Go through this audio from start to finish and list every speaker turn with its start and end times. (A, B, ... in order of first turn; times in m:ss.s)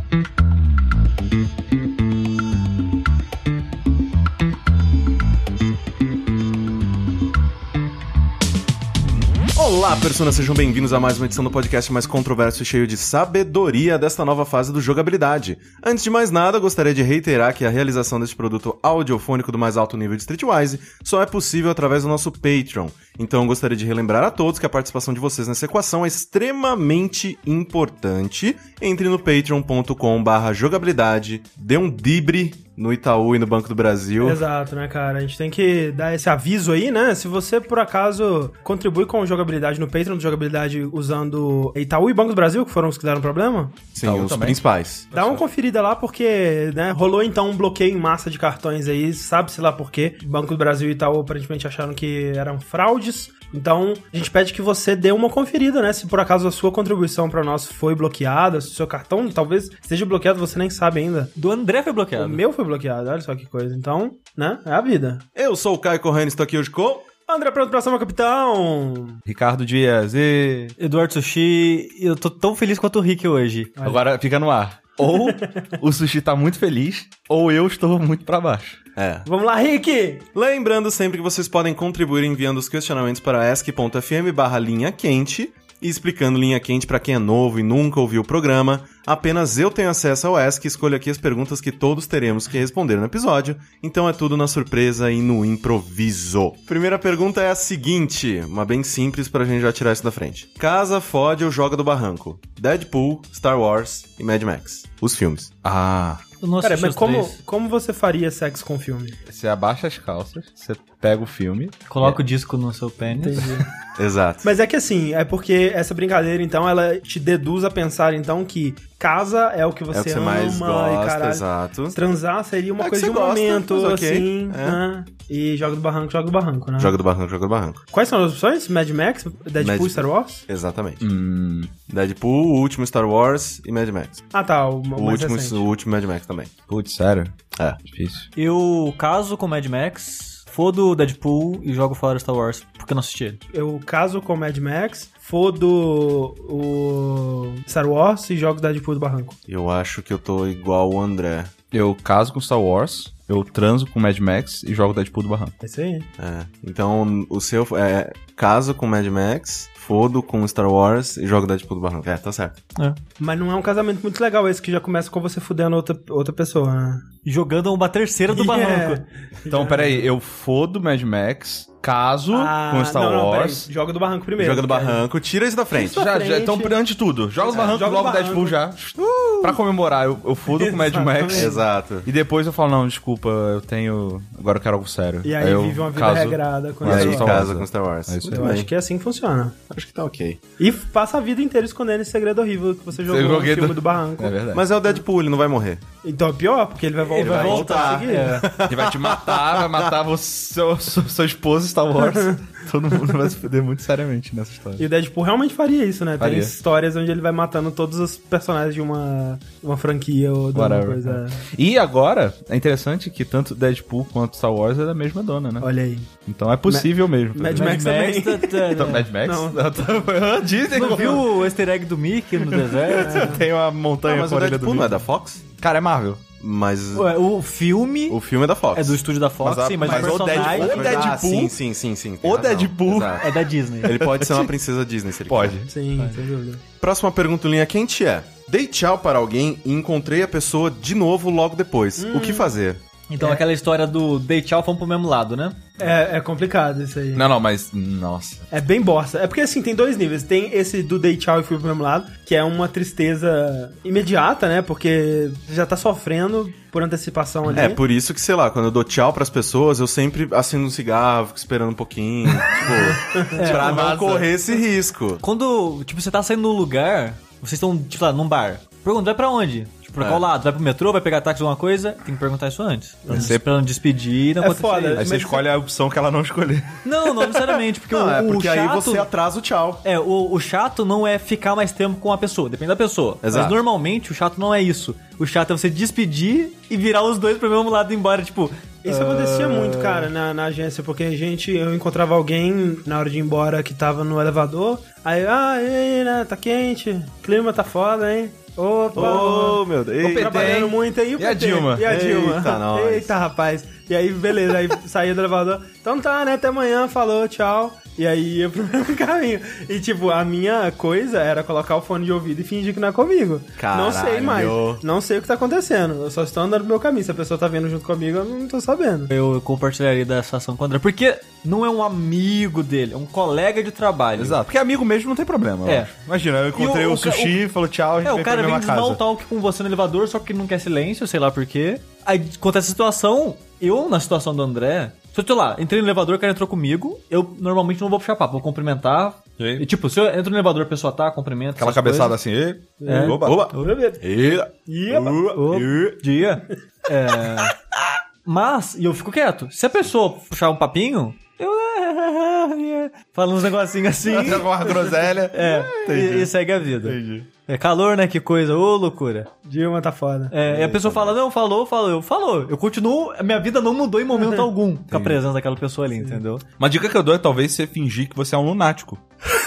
0:09.5-0:34.4 A
0:34.2-0:43.8 B
0:43.9-0:45.1 A
0:44.0-0:44.6 C
0:45.1-1:01.3 B
1:01.3-1:02.4 D
1:02.2-1:05.2 B
1:05.4-1:07.0 A
1:07.3-1:09.2 B
1:09.2-1:10.7 C
1:10.8-1:13.8 D
1:13.8-1:14.0 B
1:13.8-1:18.8 C
1:15.0-1:15.7 B
1:19.0-1:19.3 A
1:19.2-1:20.2 B
1:20.3-1:45.5 A
1:45.6-1:46.2 C
1:46.4-1:47.4 D
1:46.6-1:49.2 B
1:49.3-1:52.1 C
1:51.9-1:53.6 D
1:53.1-1:53.7 B
1:54.0-1:54.5 A
1:54.4-2:07.0 B
1:59.9-2:02.0 A
2:02.8-2:04.8 A
2:06.8-2:07.8 A
2:07.9-2:10.4 B
2:09.6-2:11.1 A
2:11.0-2:11.7 C
2:11.9-2:14.2 A
2:14.3-2:15.6 B
2:15.0-2:16.5 A
2:16.7-2:17.3 C
2:17.8-2:18.3 C
2:18.4-2:23.4 D
2:23.5-2:29.4 B
2:29.5-2:31.5 A
2:31.7-2:35.5 C
2:35.6-2:36.1 B
2:36.2-2:42.6 A
2:43.2-2:47.0 B
2:47.2-2:49.0 D
2:48.3-2:50.1 B
2:49.5-2:53.7 C
2:52.3-2:55.0 B
2:54.4-2:56.0 A
2:55.7-2:56.7 B
2:55.9-3:08.5 C
2:57.4-2:58.6 B
2:57.5-2:57.8 A
2:59.0-2:59.6 A
3:00.5-3:01.6 B
3:01.3-3:02.1 A
3:05.2-3:07.5 B
3:06.8-3:08.7 A
3:08.3-3:09.6 B
3:09.7-3:10.4 A
3:10.6-3:14.4 B
3:12.9-3:14.6 C
3:14.5-3:15.8 A
3:16.0-3:18.5 B
3:17.0-3:18.5 D
3:17.3-3:19.9 A
3:18.6-3:24.8 C
3:24.8-3:31.4 B
3:26.2-3:26.5 C
3:30.5-3:35.7 C
3:35.6-3:36.1 B
3:36.2-3:37.8 C
3:36.7-3:40.0 B
3:37.5-3:39.1 D
3:38.7-3:41.2 C
3:40.7-3:43.4 D
3:40.7-3:41.2 B
3:42.4-3:45.0 C
3:43.0-3:43.4 B
3:44.0-3:45.4 A
3:45.5-3:46.2 C
3:46.4-3:47.2 A
3:46.9-3:48.2 D
3:48.1-3:49.0 A
3:48.7-3:51.0 D
3:49.4-3:51.6 C
3:49.8-3:51.0 B
3:50.3-3:55.6 A
3:52.2-3:53.2 C
3:53.2-3:54.2 D
3:55.3-3:55.7 C
3:55.7-3:56.6 B
3:56.8-4:02.8 A
4:02.0-4:02.5 B
4:03.1-4:05.7 D
4:03.2-4:03.4 B
4:05.8-4:07.3 B
4:07.1-4:08.4 C
4:08.5-4:17.8 B
4:17.5-4:25.2 A
4:23.0-4:23.4 B
4:23.3-4:23.9 D
4:23.4-4:24.3 C
4:25.2-4:35.1 D
4:30.0-4:30.2 A
4:33.1-4:33.5 C
4:34.4-4:35.4 B
4:35.0-4:37.3 C
4:36.8-4:39.1 D
4:37.9-4:39.8 A
4:39.8-4:50.1 D
4:43.2-4:43.6 A
4:48.8-5:19.1 B
4:58.9-5:00.6 A
5:00.0-5:01.9 C
5:01.8-5:03.1 A
5:13.6-5:14.8 A
5:19.1-5:24.4 D
5:24.2-5:29.0 C
5:25.6-5:25.9 D
5:26.5-5:27.4 D
5:28.0-5:42.2 D
5:39.4-5:39.6 A
5:41.6-5:43.5 C
5:42.8-5:45.6 B
5:42.8-5:43.7 D
5:43.2-5:45.8 A
5:44.9-5:47.5 D
5:48.2-5:59.3 D
5:54.1-5:56.3 C
5:56.8-5:57.3 C
5:59.4-6:00.3 B
6:00.3-6:06.4 D
6:00.5-6:01.1 A
6:04.9-6:05.2 C
6:06.6-6:09.0 C